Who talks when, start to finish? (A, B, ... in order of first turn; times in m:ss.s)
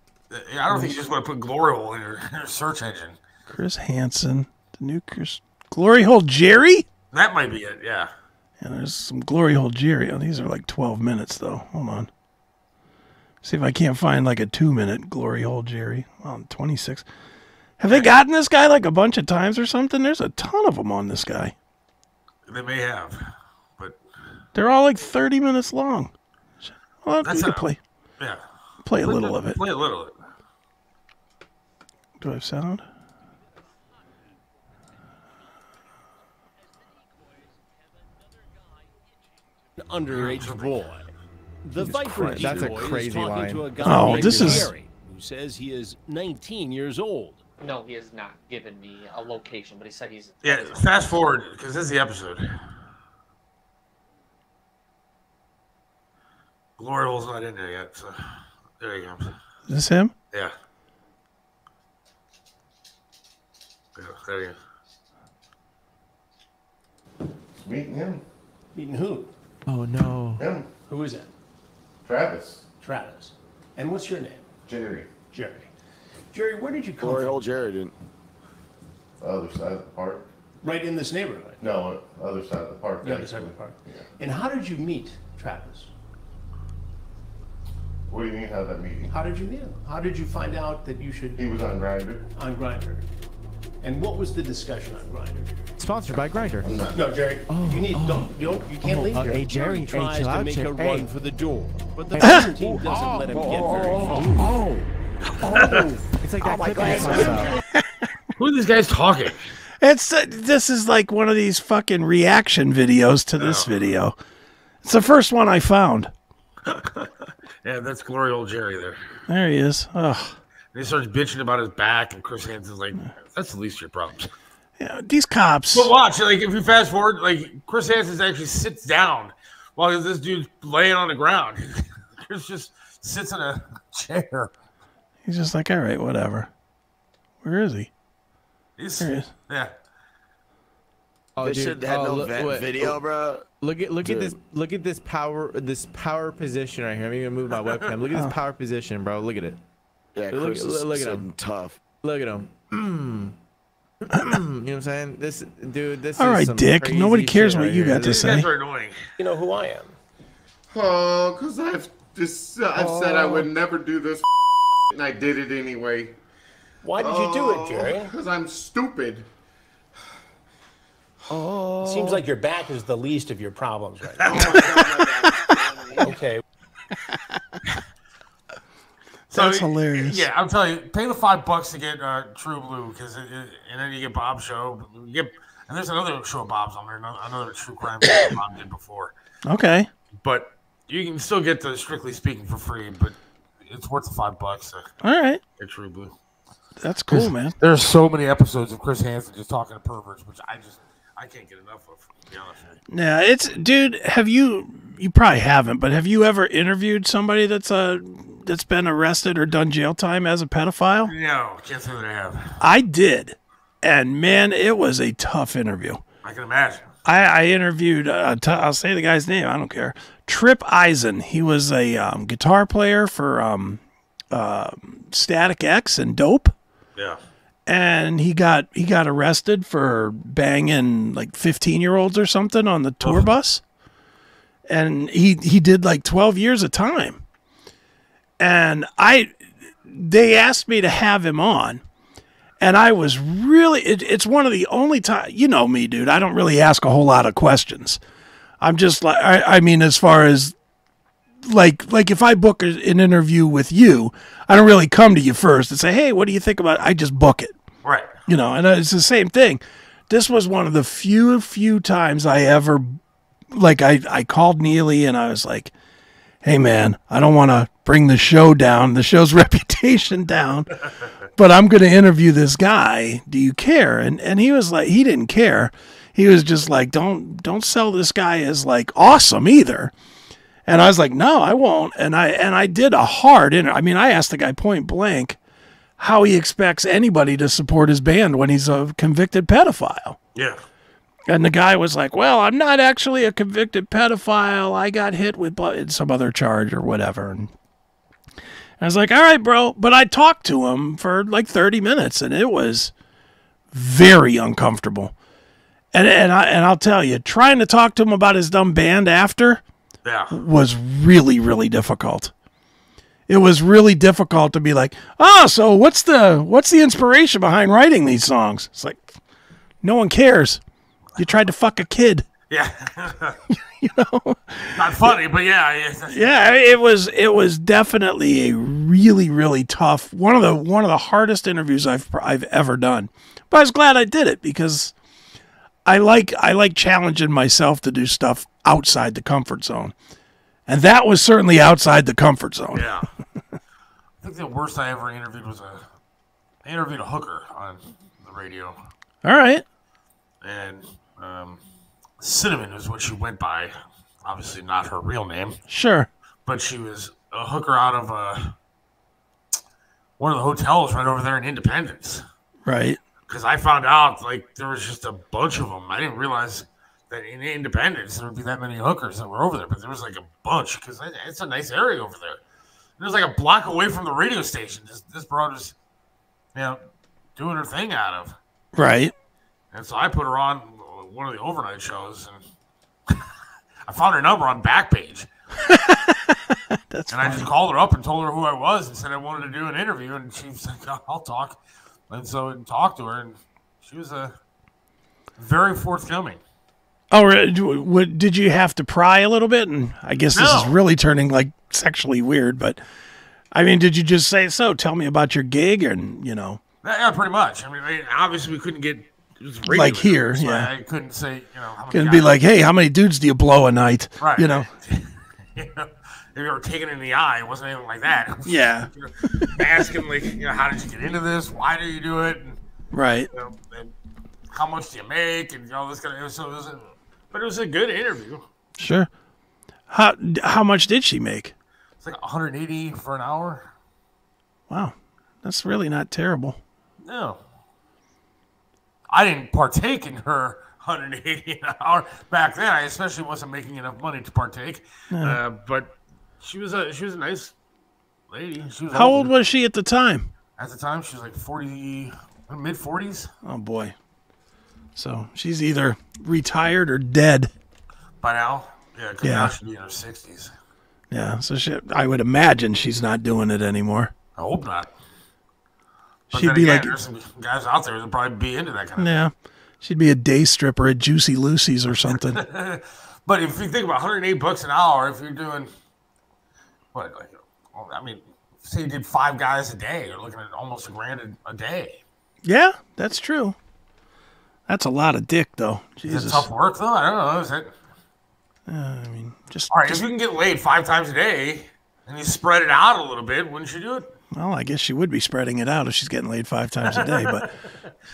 0:00.3-0:03.2 A
0:00.7-0:01.0 B
0:03.5-0:06.9 B
0:07.1-0:08.1 A
0:08.6-0:12.1 B
0:13.4-0:17.1 B
0:17.8-0:21.5 B
0:17.9-0:18.2 A
0:22.5-0:24.0 A
0:24.6-0:26.1 B
0:27.0-0:27.8 B
0:27.2-0:28.4 A
0:28.8-0:29.6 B
0:29.0-0:30.2 A
0:32.2-0:32.8 B
0:39.8-0:41.1 C
0:40.1-0:40.8 A
0:41.6-0:47.4 C
0:41.8-0:44.7 D
0:43.8-0:44.7 B
0:47.6-0:51.1 E
0:50.4-0:52.7 A
0:56.8-0:59.4 A
0:59.7-1:00.1 B
1:04.0-1:04.6 A
1:07.6-1:08.2 F
1:08.7-1:09.3 C
1:09.7-1:10.4 D
1:10.4-1:10.7 F
1:10.9-1:11.3 C
1:12.0-1:12.7 F
1:12.8-1:14.5 C
1:14.7-1:15.1 F
1:15.3-1:15.7 C
1:16.3-1:17.4 C
1:17.0-1:18.0 G
1:19.2-1:20.3 F
1:20.6-1:21.6 C
1:21.6-1:24.1 F
1:23.0-1:25.9 C
1:28.1-1:29.1 F
1:29.1-1:31.5 C
1:31.4-1:32.2 F
1:32.3-1:33.0 C
1:33.8-1:35.6 C
1:35.8-1:36.8 D
1:36.6-1:37.4 F
1:36.8-1:44.7 C
1:37.5-1:41.1 D
1:42.1-1:44.7 D
1:45.4-1:45.8 A
1:45.5-1:47.6 D
1:46.6-1:47.4 C
1:46.7-1:47.2 G
1:47.6-1:48.1 B
1:48.4-1:49.4 A
1:49.8-1:54.2 B
1:53.4-1:53.7 A
1:54.8-1:56.1 B
1:56.7-1:57.1 A
1:57.6-1:59.0 A
1:59.3-2:00.4 B
2:00.7-2:04.3 A
2:04.8-2:05.9 B
2:05.7-2:14.5 A
2:15.2-2:16.5 B
2:17.4-2:17.9 B
2:18.8-2:19.7 A
2:19.0-2:19.3 B
2:21.4-2:23.0 D
2:21.4-2:23.4 G
2:23.6-2:29.6 D
2:24.0-2:24.4 G
2:27.5-2:27.9 A
2:30.2-2:31.8 G
2:30.3-2:31.3 D
2:32.0-2:33.3 D
2:34.1-2:38.2 D
2:34.1-2:34.4 B
2:36.2-2:38.5 B
2:37.9-2:39.0 A
2:39.2-2:39.9 C
2:40.7-2:46.2 F
2:42.7-2:43.3 D
2:46.8-2:48.1 C
2:47.0-2:49.3 F
2:51.4-2:52.2 D
2:51.7-2:54.8 C
2:54.2-2:54.6 A
2:55.2-2:55.6 B
2:59.3-3:09.1 A
2:59.3-3:00.3 B
3:09.4-3:09.9 B
3:10.2-3:14.9 A
3:15.0-3:15.4 B
3:15.6-3:16.2 A
3:16.8-3:17.6 B
3:17.1-3:22.8 A
3:22.9-3:31.1 B
3:31.0-3:32.6 A
3:32.6-3:36.0 B
3:36.2-3:36.9 A
3:37.0-3:46.5 B
3:47.7-3:53.6 B
3:53.0-3:53.3 A
3:54.7-3:57.2 B
3:58.4-4:01.8 B
4:02.6-4:08.0 B
4:08.6-4:10.6 B
4:11.4-4:17.6 B
4:17.8-4:18.1 A
4:18.3-4:23.0 B
4:23.5-4:25.7 B
4:26.4-4:30.7 B
4:31.4-4:39.9 B
4:40.7-4:45.4 B
4:46.0-4:50.2 B
4:51.3-4:57.5 B
4:58.8-5:02.9 B
5:03.7-5:05.1 B
5:05.9-5:09.6 B
5:10.0-5:10.4 A
5:10.3-5:12.3 B
5:13.3-5:19.1 B
5:19.8-5:20.6 B
5:21.2-5:22.3 B
5:22.5-5:23.4 A
5:23.8-5:25.2 B
5:24.7-5:26.8 A
5:26.1-5:34.9 B
5:35.8-5:39.9 B
5:40.7-5:42.9 B
5:42.7-5:43.1 A
5:44.2-5:45.9 A
5:46.6-5:48.8 A
5:49.2-5:49.6 B
5:50.4-5:51.6 A
5:52.2-5:53.7 A
5:54.2-5:55.6 A
5:55.7-5:56.1 B
5:56.5-5:58.6 A
6:00.2-6:02.2 A
6:02.6-6:03.0 B
6:03.3-6:12.4 A
6:13.0-6:15.8 A
6:16.6-6:16.8 A
6:17.4-6:18.4 A
6:18.8-6:19.1 B
6:19.7-6:22.4 A
6:23.9-6:25.3 A
6:25.6-6:27.5 B
6:27.1-6:31.6 A
6:32.1-6:34.4 A
6:35.4-6:36.4 A
6:37.1-6:42.8 B
6:40.3-6:40.8 A
6:43.5-6:46.6 B
6:46.8-6:52.3 A
6:49.7-6:50.7 B
6:51.9-6:54.7 B
6:54.2-7:02.6 A
6:58.5-6:59.6 B
7:02.9-7:03.3 B
7:03.3-7:03.9 A
7:04.5-7:08.4 A
7:08.8-7:09.1 B
7:09.9-7:11.5 B
7:12.0-7:13.7 A
7:14.7-7:16.6 B
7:17.0-7:17.4 A
7:19.1-7:27.6 A
7:25.1-7:25.4 B
7:28.3-7:29.3 A
7:28.9-7:30.3 B
7:30.6-7:33.3 A
7:33.4-7:34.0 B
7:35.0-7:37.5 B
7:38.2-7:40.5 A
7:39.2-7:39.5 B
7:41.1-7:44.1 B
7:44.4-7:44.9 A
7:46.3-7:47.0 B
7:46.3-7:49.2 A
7:49.0-7:52.4 B
7:52.1-7:55.7 A
7:56.9-8:02.0 A
8:02.4-8:03.6 B
8:04.7-8:06.5 B
8:06.1-8:07.7 A
8:08.7-8:10.0 B
8:09.7-8:14.1 A
8:14.3-8:17.4 B
8:16.9-8:17.7 A